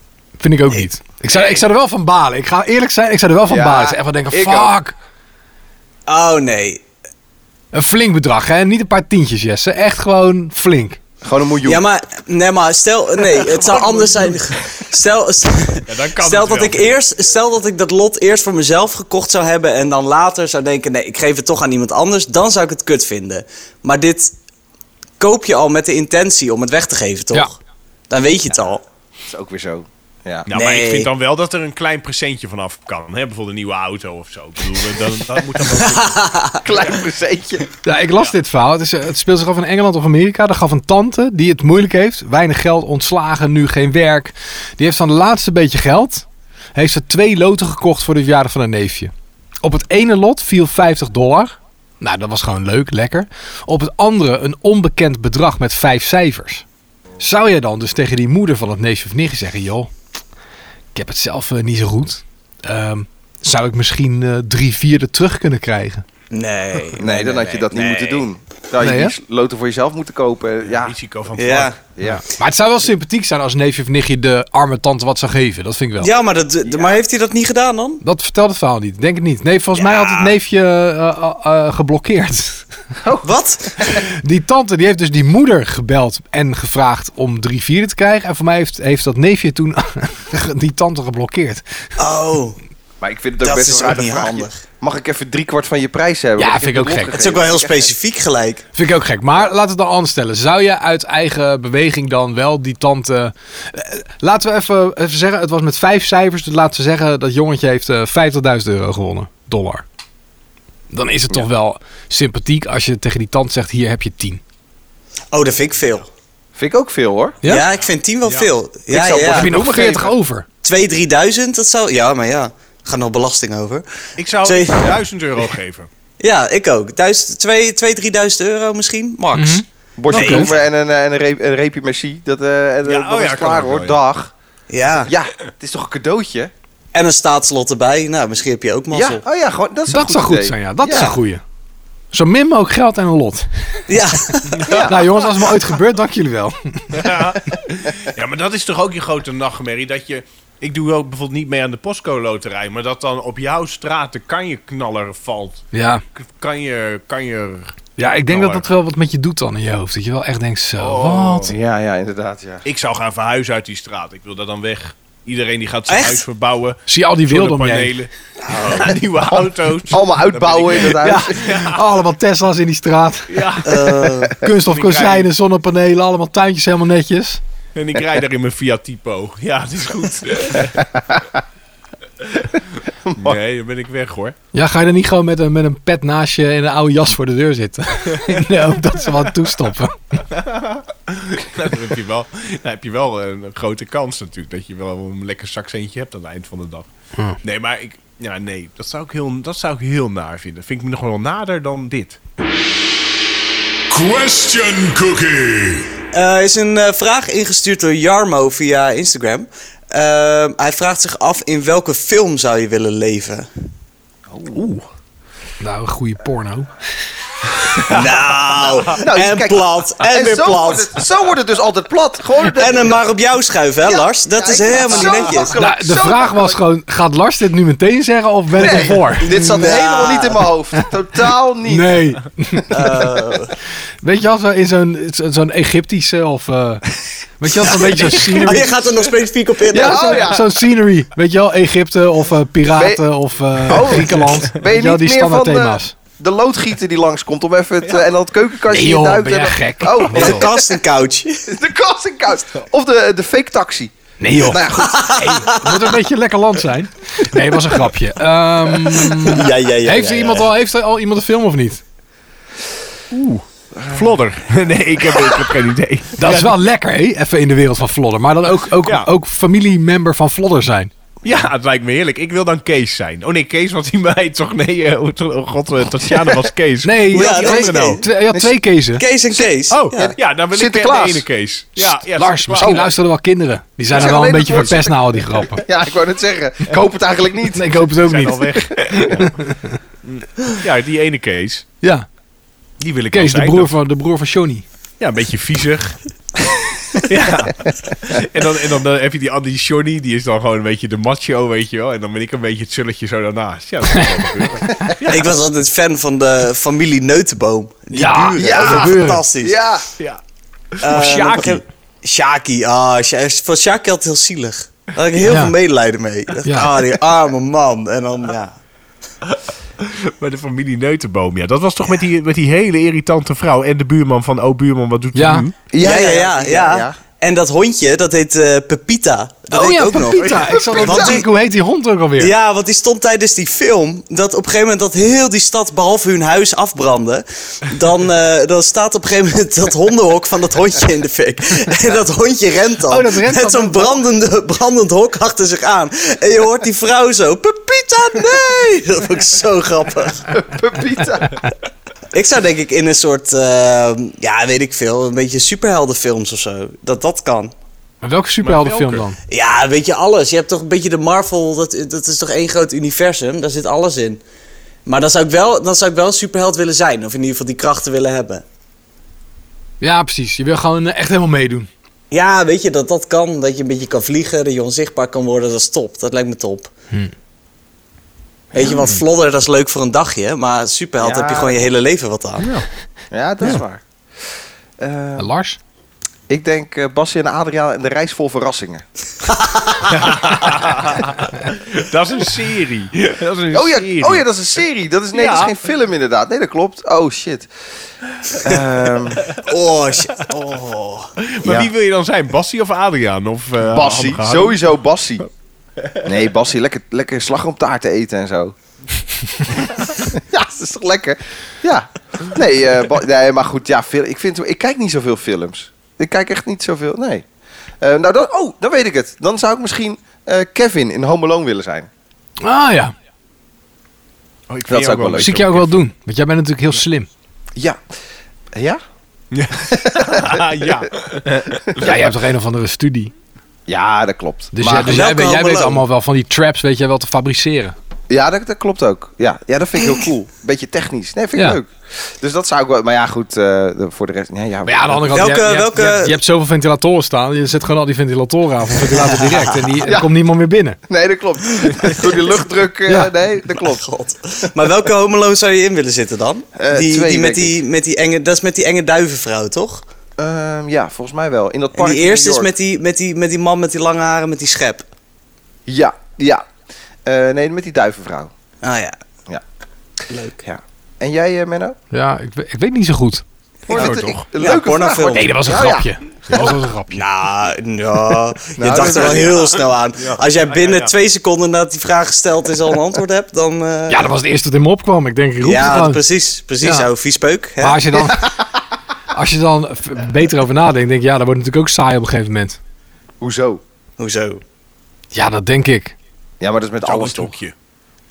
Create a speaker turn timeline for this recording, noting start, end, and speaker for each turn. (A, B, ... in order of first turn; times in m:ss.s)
0:00.4-0:04.9 A
0:03.5-0:04.8 B
0:06.1-0:06.8 C
0:07.7-0:11.0 A
0:11.2-0:11.8 B
0:11.6-0:24.3 C
0:13.3-0:14.4 D
0:15.9-0:17.0 D
0:25.2-0:27.6 C
0:28.1-0:28.8 C
0:29.2-0:30.5 B
0:30.4-0:36.6 D
0:30.5-0:31.1 C
0:35.8-0:36.6 C
0:36.6-0:37.6 B
0:37.8-0:49.1 A
0:49.6-0:56.6 A
0:57.2-0:59.9 A
1:00.9-1:06.0 A
1:06.3-1:08.2 C
1:07.0-1:10.9 B
1:08.8-1:09.1 A
1:10.6-1:11.7 D
1:11.4-1:11.8 C
1:12.0-1:12.2 B
1:12.0-1:16.1 A
1:16.0-1:18.0 C
1:16.6-1:17.0 B
1:18.0-1:22.7 A
1:19.7-1:20.4 C
1:23.0-1:24.0 B
1:23.2-1:23.9 C
1:23.9-1:31.6 A
1:32.0-1:32.6 C
1:33.0-1:37.9 B
1:33.4-1:34.6 C
1:36.4-1:37.2 A
1:37.1-1:38.6 C
1:38.7-1:49.8 A
1:50.9-1:54.4 A
1:55.3-1:56.1 C
1:56.5-1:57.4 B
1:57.4-1:59.8 C
1:57.7-1:58.5 D
1:58.9-2:00.4 A
1:59.2-2:00.0 D
2:00.6-2:03.8 C
2:04.2-2:05.9 D
2:04.4-2:05.0 C
2:06.2-2:10.6 C
2:09.3-2:10.5 A
2:10.0-2:14.3 B
2:12.8-2:14.0 D
2:14.7-2:15.1 C
2:15.0-2:16.5 B
2:16.9-2:19.2 C
2:18.9-2:21.2 B
2:19.9-2:21.4 A
2:22.1-2:23.8 A
2:23.9-2:24.8 C
2:24.5-2:24.9 D
2:24.7-2:25.0 B
2:24.7-2:27.1 A
2:26.9-2:37.7 D
2:35.7-2:36.0 A
2:38.0-2:41.5 A
2:38.3-2:38.7 D
2:40.8-2:41.5 D
2:41.5-2:42.6 B
2:42.6-2:51.8 D
2:45.9-2:46.2 C
2:46.9-2:47.9 A
2:48.5-2:48.9 C
2:49.9-2:51.4 B
2:51.0-2:53.3 A
2:53.3-2:54.1 D
2:53.6-2:54.4 C
2:54.4-2:57.4 A
2:54.6-2:55.3 D
2:57.7-3:00.9 D
3:02.2-3:02.6 D
3:03.1-3:03.4 B
3:03.2-3:04.4 D
3:04.5-3:10.1 A
3:10.3-3:16.9 D
3:17.4-3:22.2 D
3:23.9-3:25.9 E
3:26.1-3:33.5 C
3:34.3-3:34.7 B
3:34.5-3:34.8 D
3:35.6-3:36.7 A
3:37.8-3:41.0 C
3:38.9-3:43.0 B
3:42.4-3:45.6 C
3:43.8-3:46.6 B
3:45.6-3:49.4 A
3:48.5-3:52.0 B
3:49.2-3:50.4 C
3:51.6-3:53.2 A
3:52.7-3:53.5 C
3:54.0-3:56.8 A
3:57.4-3:58.8 A
3:57.5-4:00.4 C
3:59.7-4:00.5 B
3:59.7-4:06.0 A
4:02.7-4:03.0 B
4:03.6-4:10.6 B
4:08.7-4:10.5 A
4:10.1-4:11.5 C
4:11.5-4:15.2 B
4:14.2-4:21.8 A
4:14.7-4:15.8 C
4:18.8-4:20.5 C
4:23.1-4:26.5 D
4:23.8-4:24.0 B
4:26.2-4:30.9 A
4:28.8-4:29.1 D
4:31.2-4:38.0 D
4:36.8-4:39.0 A
4:37.1-4:38.0 C
4:39.0-4:40.1 C
4:39.3-4:41.3 B
4:39.7-4:42.8 D
4:42.1-4:45.6 A
4:42.6-4:42.8 B
4:43.9-4:47.9 B
4:47.5-4:49.7 A
4:48.0-4:49.4 D
4:50.0-4:51.6 D
4:51.8-4:52.1 A
4:52.8-4:53.7 D
4:53.1-4:54.6 A
4:55.0-5:05.3 D
5:03.9-5:04.2 A
5:05.1-5:09.6 C
5:07.9-5:09.2 A
5:08.4-5:09.9 B
5:10.7-5:11.2 D
5:10.8-5:18.6 C
5:10.9-5:11.6 A
5:15.2-5:15.5 A
5:16.4-5:16.7 A
5:19.3-5:25.5 D
5:25.1-5:25.5 A
5:25.7-5:27.0 B
5:25.8-5:31.2 C
5:29.5-5:32.3 A
5:30.4-5:31.2 B
5:32.2-5:50.3 C
5:42.9-5:44.0 A
5:50.3-5:51.5 B
5:52.1-5:57.5 C
5:58.0-5:59.2 A
5:58.4-5:59.0 D
5:59.3-6:04.2 C
6:04.8-6:08.4 C
6:09.8-6:11.7 A
6:12.1-6:16.7 C
6:18.5-6:22.5 C
6:21.0-6:21.7 B
6:23.1-6:23.8 B
6:24.8-6:25.3 B
6:25.2-6:25.6 A
6:26.3-6:28.8 B
6:29.4-6:29.9 C
6:29.9-6:34.2 D
6:33.5-6:37.5 B
6:35.1-6:35.5 D
6:38.4-6:39.2 B
6:39.4-6:41.1 C
6:41.2-6:44.6 D
6:41.4-6:41.7 B
6:43.6-6:45.2 B
6:46.0-6:48.5 B
6:49.9-6:57.2 B
6:57.8-7:01.9 B
7:02.4-7:02.9 A
7:04.5-7:05.8 D
7:04.7-7:05.4 B
7:05.2-7:07.1 A
7:08.5-7:08.8 B
7:09.3-7:11.9 D
7:09.7-7:10.4 B
7:11.7-7:12.0 B
7:11.8-7:13.1 A
7:13.7-7:15.1 B
7:14.5-7:17.7 A
7:14.7-7:15.8 C
7:18.1-7:25.3 B
7:24.6-7:30.8 A
7:25.1-7:26.2 C
7:28.8-7:29.8 C
7:29.8-7:30.1 B
7:30.9-7:33.9 B
7:31.6-7:32.3 C
7:32.9-7:33.1 A
7:33.6-7:39.8 C
7:36.6-7:37.6 B
7:40.2-7:42.5 B
7:41.7-7:44.9 C
7:45.7-7:46.4 B
7:47.0-7:48.3 B
7:48.6-7:49.0 C
7:50.1-7:50.4 C
7:50.4-7:51.8 B
7:51.9-7:53.2 A
7:53.7-7:55.9 B
7:53.7-7:54.3 D
7:53.8-7:55.3 C
7:55.1-7:57.0 A
7:56.4-8:04.1 C
7:58.6-7:59.5 B
7:58.8-8:00.9 D
8:03.9-8:06.0 A
8:05.4-8:08.2 C
8:06.6-8:06.9 A
8:07.6-8:08.3 A
8:09.1-8:12.6 A
8:13.2-8:13.6 B
8:14.0-8:14.4 C
8:15.1-8:16.0 A
8:16.4-8:17.3 B
8:16.8-8:17.5 D